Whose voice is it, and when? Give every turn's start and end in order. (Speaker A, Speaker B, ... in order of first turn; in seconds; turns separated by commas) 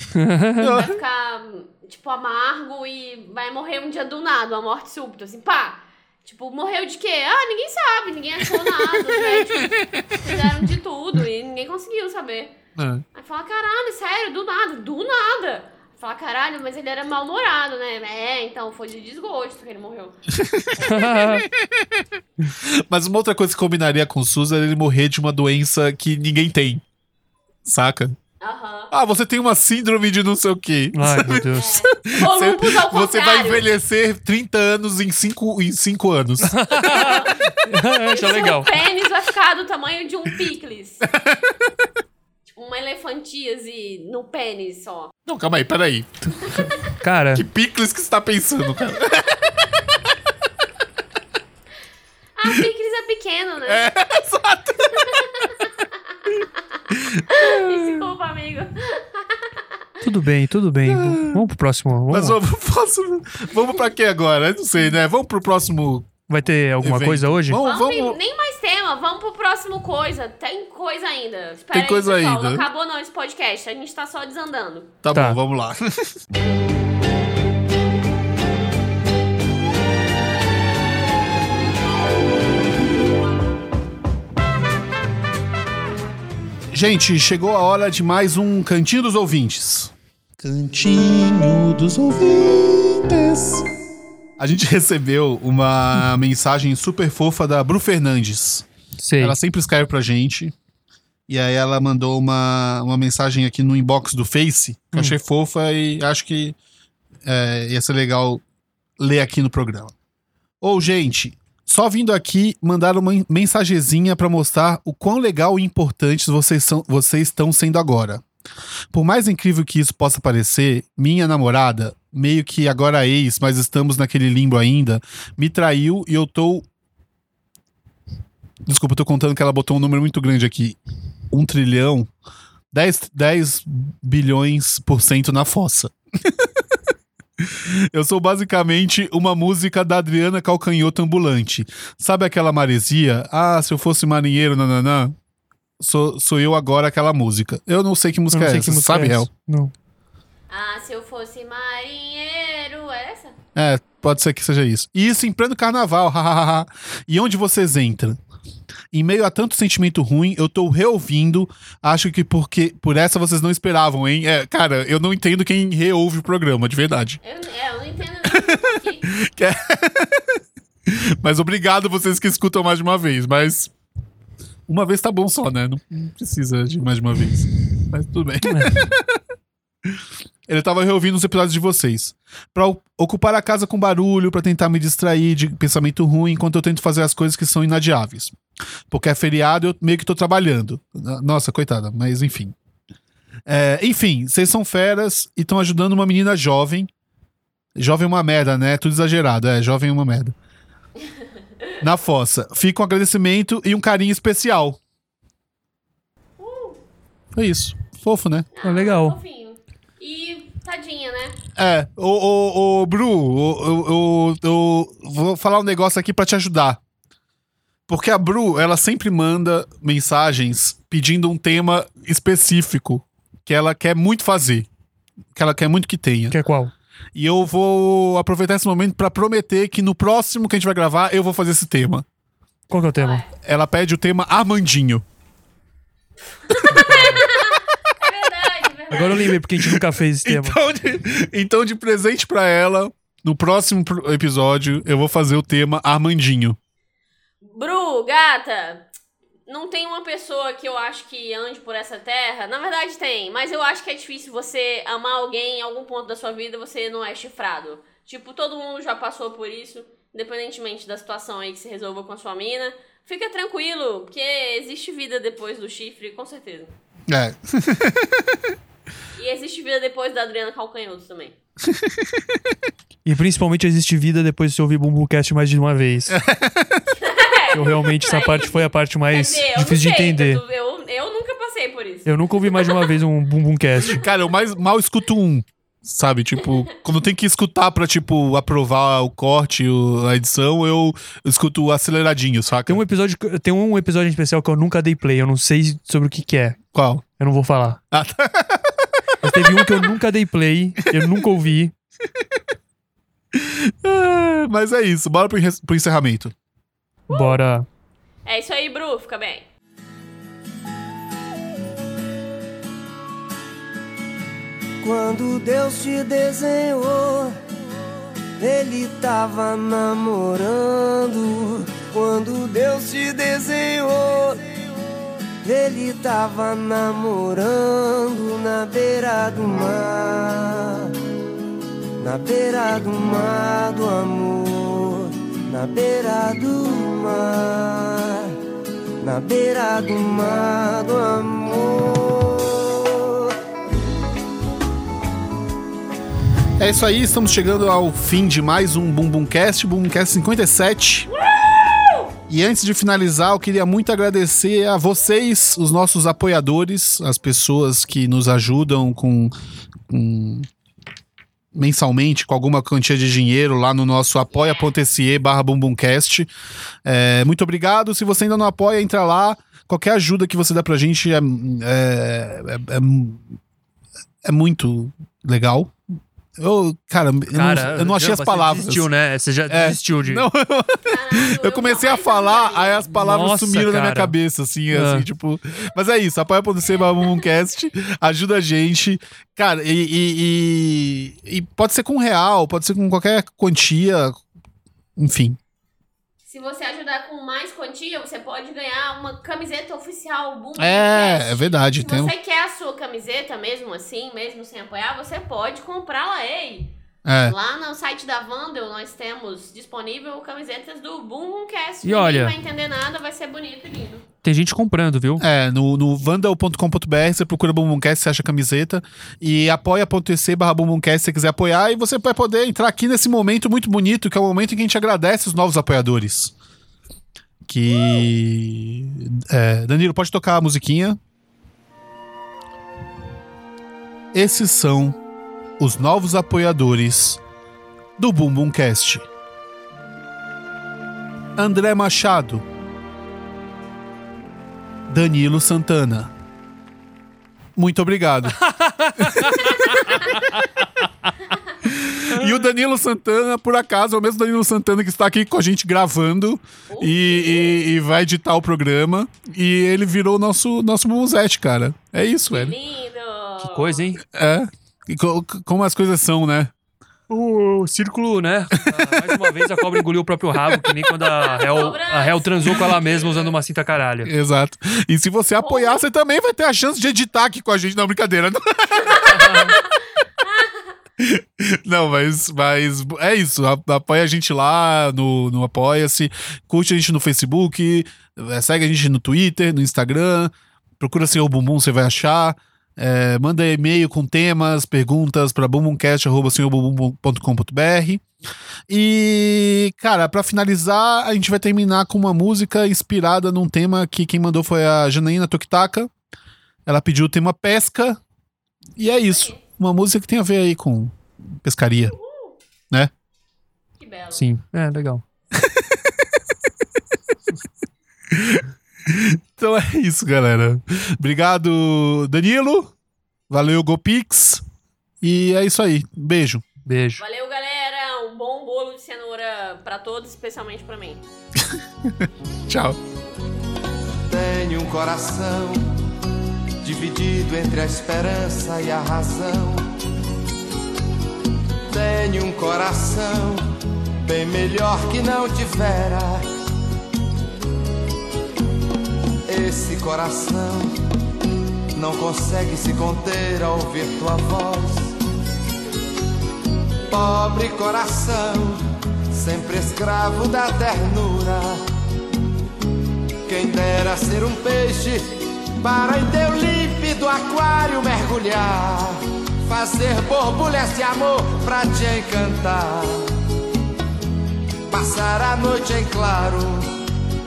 Speaker A: 0.1-0.8, Speaker B: 0.6-1.0, Speaker C: 0.6-12.6, Speaker B: 9.0-10.4, Speaker B: 12.8-13.1, Speaker C: 13.1-20.2, Speaker B: 20.3-22.1, Speaker C: 20.8-21.4, Speaker A: 20.8-21.4, Speaker B: 22.6-26.8, Speaker B: 27.6-28.2, Speaker C: 28.4-28.9, Speaker B: 28.9-37.2, Speaker A: 30.9-31.8, Speaker C: 31.5-33.7, Speaker A: 36.4-38.7, Speaker C: 36.8-41.1, Speaker B: 41.1-41.5, Speaker C: 42.5-45.1, Speaker B: 45.3-46.1, Speaker A: 46.5-47.5, Speaker B: 47.3-49.5, Speaker C: 52.4-53.9, Speaker B: 53.7-55.6, Speaker C: 55.1-55.5, Speaker B: 56.9-58.1, Speaker C: 57.3-59.7, Speaker A: 60.0-62.4, Speaker B: 60.9-61.5, Speaker B: 62.1-66.2, Speaker A: 66.3-67.6, Speaker B: 66.8-68.2, Speaker C: 67.6-74.9, Speaker B: 71.7-72.7, Speaker B: 75.0-76.2, Speaker A: 75.1-75.4, Speaker B: 86.7-93.7, Speaker B: 94.4-98.7, Speaker A: 99.0-99.4, Speaker B: 99.2-100.5, Speaker B: 101.3-106.6, Speaker B: 107.2-108.4, Speaker B: 109.0-109.9, Speaker B: 110.6-118.2, Speaker B: 118.9-126.7, Speaker B: 128.7-130.8, Speaker B: 131.3-132.1, Speaker B: 132.7-136.5, Speaker B: 137.4-145.2, Speaker B: 145.8-149.3, Speaker A: 148.3-149.7, Speaker C: 150.5-153.3, Speaker B: 153.6-158.2, Speaker B: 158.9-167.2, Speaker C: 167.2-169.1, Speaker B: 168.3-173.7, Speaker B: 174.7-179.2, Speaker A: 178.4-178.9, Speaker B: 179.9-188.3, Speaker B: 188.9-192.6, Speaker B: 193.5-196.9, Speaker B: 197.8-200.3, Speaker B: 201.8-204.8, Speaker C: 206.4-206.8, Speaker B: 207.3-208.5, Speaker C: 208.6-211.4, Speaker A: 208.6-209.2, Speaker B: 211.6-216.8, Speaker B: 217.9-224.7, Speaker B: 225.3-226.4, Speaker A: 226.3-226.7, Speaker B: 227.2-232.1, Speaker A: 232.7-233.2, Speaker C: 233.0-233.3, Speaker B: 233.4-235.0, Speaker C: 236.4-239.3, Speaker A: 236.7-237.2, Speaker A: 238.9-240.6, Speaker B: 239.0-246.6, Speaker C: 247.4-248.9, Speaker C: 249.5-266.8, Speaker B: 267.1-268.4, Speaker C: 269.1-271.4, Speaker B: 271.7-272.2, Speaker A: 273.1-276.2, Speaker B: 276.1-276.9, Speaker C: 277.0-282.9, Speaker A: 277.5-280.4, Speaker A: 282.1-284.0, Speaker B: 283.8-292.8, Speaker A: 292.7-296.6, Speaker B: 296.7-297.0, Speaker A: 297.2-297.8, Speaker B: 297.9-299.8, Speaker A: 299.2-301.7, Speaker B: 300.9-301.2, Speaker B: 303.3-306.3, Speaker C: 307.1-307.4, Speaker A: 307.1-307.7, Speaker C: 308.2-309.5, Speaker D: 314.8-317.4, Speaker D: 318.4-324.5, Speaker D: 325.4-330.9, Speaker D: 332.0-338.4, Speaker D: 339.0-343.3, Speaker B: 346.6-351.1, Speaker B: 352.3-359.3, Speaker B: 359.9-360.5, Speaker B: 361.5-366.3, Speaker C: 364.4-364.7, Speaker B: 366.9-373.3, Speaker B: 374.2-375.7, Speaker B: 376.4-378.9, Speaker A: 377.3-380.3, Speaker B: 379.5-394.2, Speaker C: 380.8-382.9, Speaker A: 382.9-384.1, Speaker A: 384.7-385.1, Speaker B: 395.0-395.4, Speaker C: 396.3-406.7, Speaker B: 400.6-402.1, Speaker B: 407.1-407.4, Speaker C: 407.2-414.1, Speaker A: 411.8-412.3, Speaker A: 414.2-415.2, Speaker B: 415.2-426.3, Speaker B: 427.5-431.0, Speaker B: 434.1-435.0, Speaker B: 435.6-437.2, Speaker B: 438.0-439.1, Speaker B: 441.4-442.4, Speaker B: 444.9-446.1, Speaker B: 447.6-448.4, Speaker A: 448.4-450.2, Speaker B: 449.0-449.3, Speaker B: 451.6-462.6, Speaker C: 456.7-457.6, Speaker C: 462.3-463.9, Speaker A: 463.4-464.0, Speaker B: 464.1-466.5, Speaker A: 467.1-474.1, Speaker C: 471.1-473.3, Speaker B: 474.1-479.5, Speaker C: 475.4-475.8, Speaker C: 478.8-479.7, Speaker C: 480.2-480.6, Speaker B: 481.0-498.0, Speaker B: 498.7-505.9, Speaker B: 506.7-508.0, Speaker B: 508.8-511.9, Speaker C: 509.1-509.4, Speaker C: 511.9-512.4, Speaker C: 513.8-514.3, Speaker A: 514.2-515.0, Speaker B: 515.3-515.8, Speaker B: 518.1-522.7, Speaker B: 523.3-524.4, Speaker B: 525.0-526.4, Speaker A: 526.6-527.0, Speaker C: 527.0-531.0, Speaker B: 531.4-532.8, Speaker E: 534.1-535.7, Speaker E: 536.6-539.7, Speaker E: 541.7-543.5, Speaker E: 544.0-546.3, Speaker E: 549.3-550.8, Speaker E: 551.7-555.0, Speaker E: 556.9-561.6, Speaker E: 563.2-573.1, Speaker E: 574.7-576.8